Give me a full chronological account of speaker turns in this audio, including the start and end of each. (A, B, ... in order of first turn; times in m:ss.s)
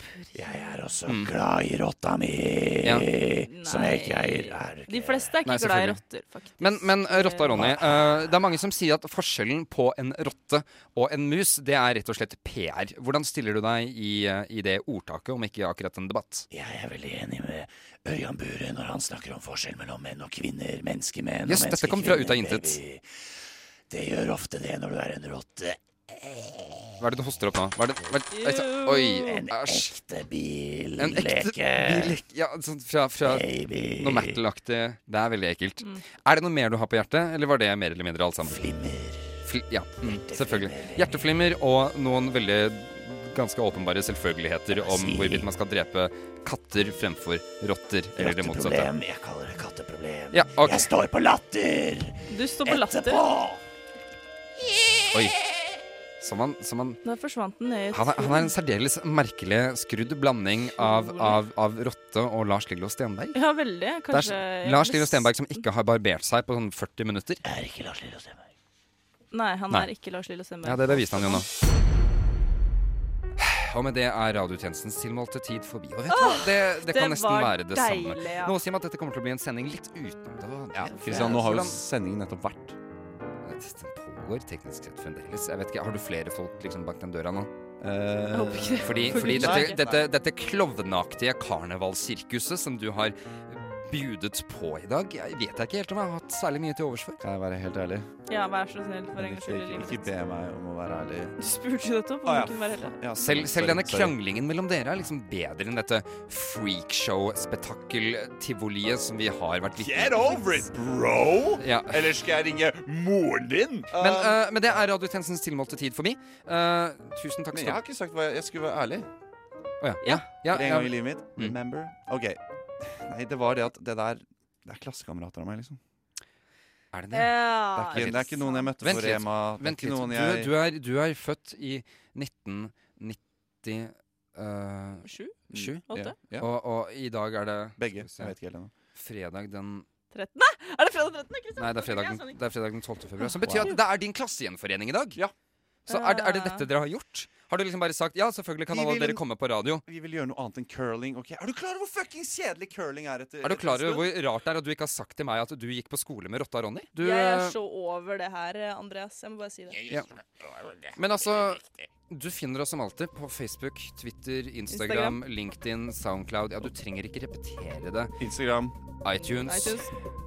0:00.2-0:00.9 A
0:00.3-0:05.4 B
0:01.0-0:01.3 C
0:03.4-0:07.7 A
0:05.4-0:06.0 C
0:06.6-0:16.5 C
0:07.5-0:08.3 B
0:16.5-0:23.0 B
0:21.5-0:22.8 C
0:23.9-0:26.9 B
0:27.0-0:29.9 C
0:28.3-0:29.4 A
0:29.3-0:32.2 B
0:31.0-0:38.6 C
0:33.2-0:34.4 B
0:38.4-0:39.4 B
0:39.4-0:48.9 C
0:40.0-0:41.3 B
0:44.7-0:45.5 B
0:48.2-0:53.6 B
0:50.3-0:50.9 C
0:52.3-0:53.2 A
0:54.6-0:55.3 B
0:56.2-0:57.0 C
0:57.0-0:58.5 A
0:57.9-1:03.4 C
1:00.8-1:01.4 A
1:03.3-1:05.6 A
1:04.1-1:07.4 C
1:07.4-1:08.5 B
1:09.3-1:11.4 A
1:10.6-1:11.5 C
1:13.4-1:21.8 C
1:16.1-1:18.5 A
1:20.8-1:21.2 A
1:20.9-1:22.8 D
1:23.4-1:27.5 C
1:27.8-1:30.0 D
1:28.3-1:30.0 A
1:28.8-1:37.2 C
1:37.2-1:38.1 D
1:38.3-1:40.1 A
1:39.1-1:41.3 D
1:41.4-1:43.0 A
1:42.2-1:44.2 D
1:43.2-1:50.6 C
1:49.8-1:54.4 D
1:51.6-1:52.1 C
1:54.0-1:57.8 C
1:57.5-1:59.1 D
1:59.8-2:01.5 C
2:00.0-2:00.3 A
2:00.5-2:05.8 D
2:06.9-2:18.3 C
2:07.1-2:08.7 A
2:07.8-2:10.5 D
2:15.0-2:15.4 A
2:15.5-2:16.5 D
2:15.9-2:16.2 A
2:17.8-2:18.7 D
2:19.0-2:19.8 C
2:20.1-2:22.4 A
2:21.6-2:25.2 C
2:23.2-2:23.8 A
2:23.4-2:23.7 D
2:25.9-2:26.7 A
2:25.9-2:29.8 C
2:28.7-2:29.2 D
2:29.8-2:34.1 D
2:33.4-2:37.6 C
2:37.0-2:39.8 A
2:41.0-2:48.1 C
2:44.7-2:45.2 A
2:48.2-2:48.8 D
2:49.0-2:49.9 C
2:49.2-2:49.9 A